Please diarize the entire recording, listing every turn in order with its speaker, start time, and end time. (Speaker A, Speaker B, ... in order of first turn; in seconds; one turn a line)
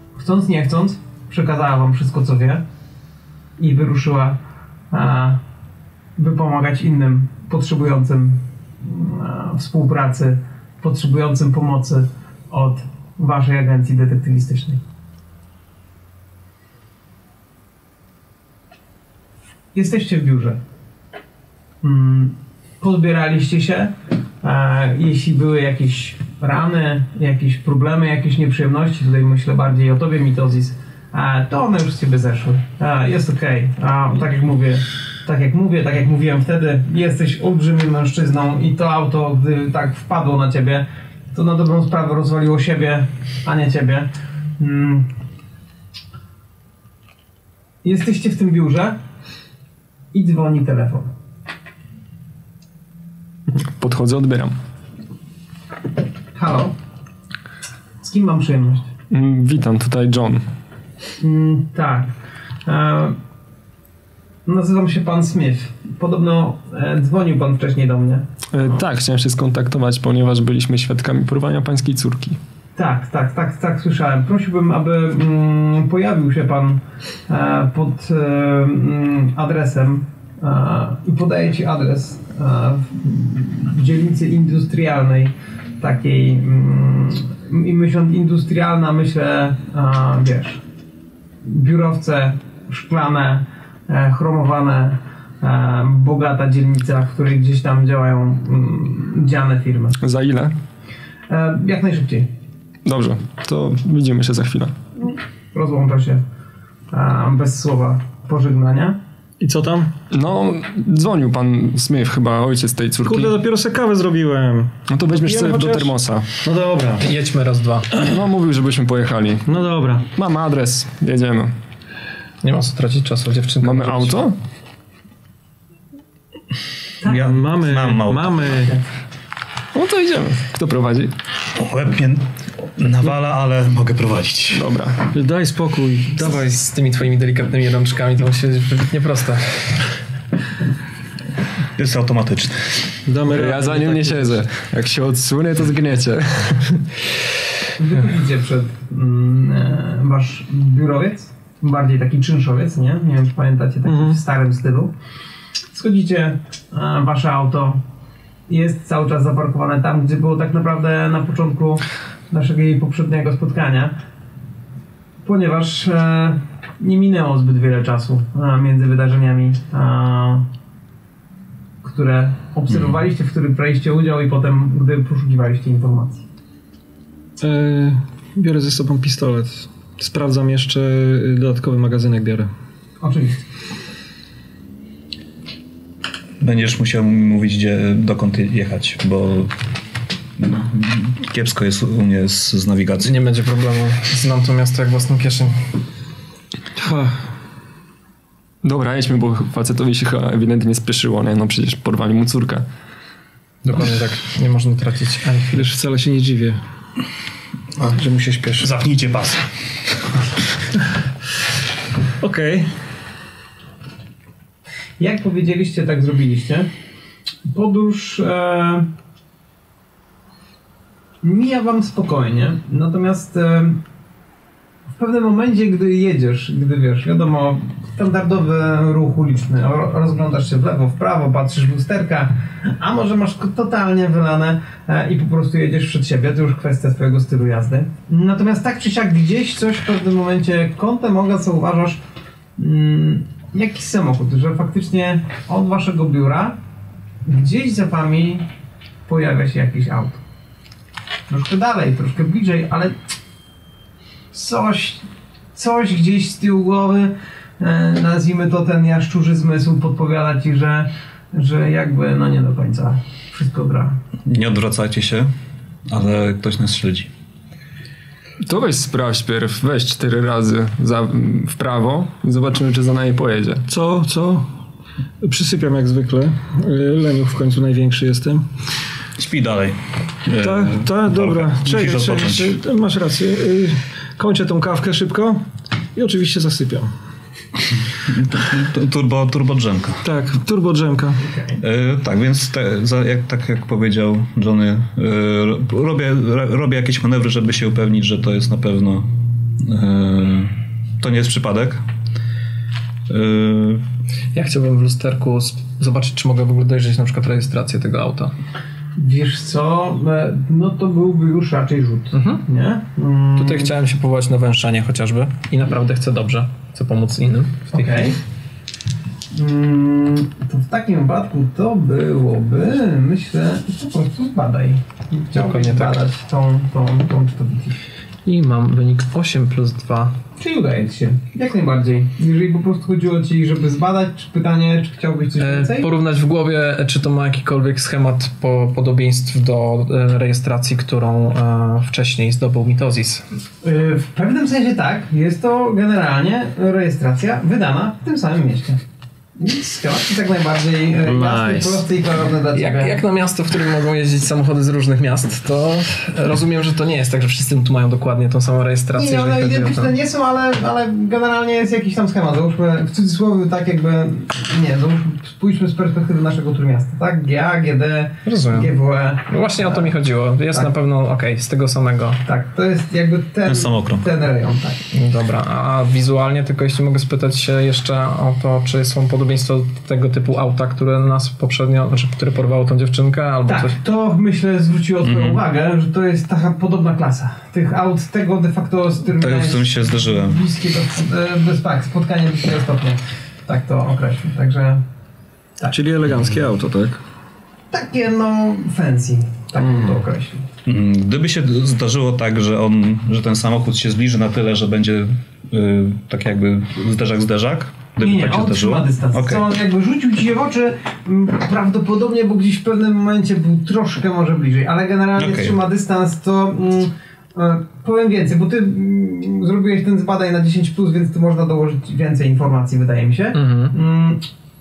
Speaker A: 0.1-2.6
Speaker A: 3.6-4.4
Speaker A: 4.9-5.4
Speaker A: 6.2-14.8
Speaker A: 19.7-20.6
Speaker A: 21.8-45.1
Speaker A: 47.8-49.0
Speaker A: 50.1-51.1
Speaker B: 53.5-54.6
Speaker A: 56.3-56.7
Speaker A: 58.0-58.9
Speaker B: 59.1-60.5
Speaker A: 61.2-62.1
Speaker A: 62.7-63.2
Speaker A: 64.5-68.3
Speaker B: 68.5-72.4
Speaker A: 72.8-90.6
Speaker A: 91.4-100.0
Speaker B: 100.0-100.5
Speaker A: 101.3-102.3
Speaker B: 102.8-104.8
Speaker A: 105.0-106.2
Speaker A: 106.9-109.0
Speaker C: 109.4-110.0
Speaker B: 110.1-113.3
Speaker C: 113.0-117.1
Speaker B: 114.9-116.3
Speaker D: 117.0-117.9
Speaker B: 118.0-119.5
Speaker C: 119.5-120.1
Speaker B: 120.1-121.5
Speaker D: 122.4-124.2
Speaker B: 123.6-124.4
Speaker E: 127.1-128.7
Speaker C: 127.1-128.8
Speaker B: 129.7-131.1
Speaker E: 131.6-134.7
Speaker B: 134.5-135.1
Speaker C: 135.1-136.4
Speaker D: 136.2-139.7
Speaker E: 141.8-143.0
Speaker C: 143.1-144.4
Speaker B: 143.3-146.9
Speaker A: 147.8-154.9
Speaker C: 153.8-154.2
Speaker A: 155.7-157.8
Speaker A: 158.5-164.0
Speaker A: 165.2-170.5
Speaker A: 171.8-176.2
Speaker C: 177.4-182.5
Speaker A: 183.0-183.4
Speaker E: 186.4-189.5
Speaker E: 190.4-193.2
Speaker D: 193.0-195.6
Speaker C: 196.8-197.1
Speaker B: 198.6-202.7
Speaker D: 203.6-205.7
Speaker C: 205.5-206.6
Speaker C: 207.8-208.7
Speaker E: 208.6-209.5
Speaker C: 212.2-212.7
Speaker A: 215.0-216.7
Speaker A: 217.5-218.9
Speaker A: 221.2-223.8
Speaker A: 225.0-242.0
Speaker A: 242.6-246.6
Speaker A: 247.2-248.5
Speaker A: 249.1-250.2
Speaker A: 251.3-253.0
Speaker A: 254.3-264.0
Speaker E: 264.3-265.3
Speaker E: 265.9-267.1
Speaker B: 268.4-273.6
Speaker C: 273.7-274.5
Speaker C: 275.2-278.5
Speaker E: 279.2-282.6
Speaker C: 280.3-286.9
Speaker E: 288.0-290.1
Speaker C: 290.0-291.3
Speaker A: 291.2-291.6
Speaker E: 291.6-301.8
Speaker E: 303.1-303.8
Speaker D: 304.3-308.3
Speaker A: 309.0-313.7
Speaker D: 312.1-312.4
Speaker D: 313.4-318.2
Speaker A: 317.7-318.2
Speaker A: 319.3-327.8
Speaker D: 325.3-325.9
Speaker D: 328.2-330.2
Speaker A: 330.4-335.9
Speaker D: 335.4-343.2
Speaker A: 343.6-348.8
Speaker A: 349.4-353.0
Speaker C: 351.0-351.9
Speaker D: 352.5-359.9
Speaker A: 358.9-369.9
Speaker D: 368.3-368.8
Speaker D: 369.3-372.2
Speaker A: 372.2-374.8
Speaker E: 373.5-374.1
Speaker D: 374.9-383.8
Speaker A: 383.5-394.8
Speaker E: 385.0-385.4
Speaker E: 389.2-390.4
Speaker C: 395.7-397.0
Speaker A: 397.7-400.5
Speaker E: 400.6-409.4
Speaker A: 408.0-424.2
Speaker E: 415.2-415.6
Speaker D: 423.4-423.7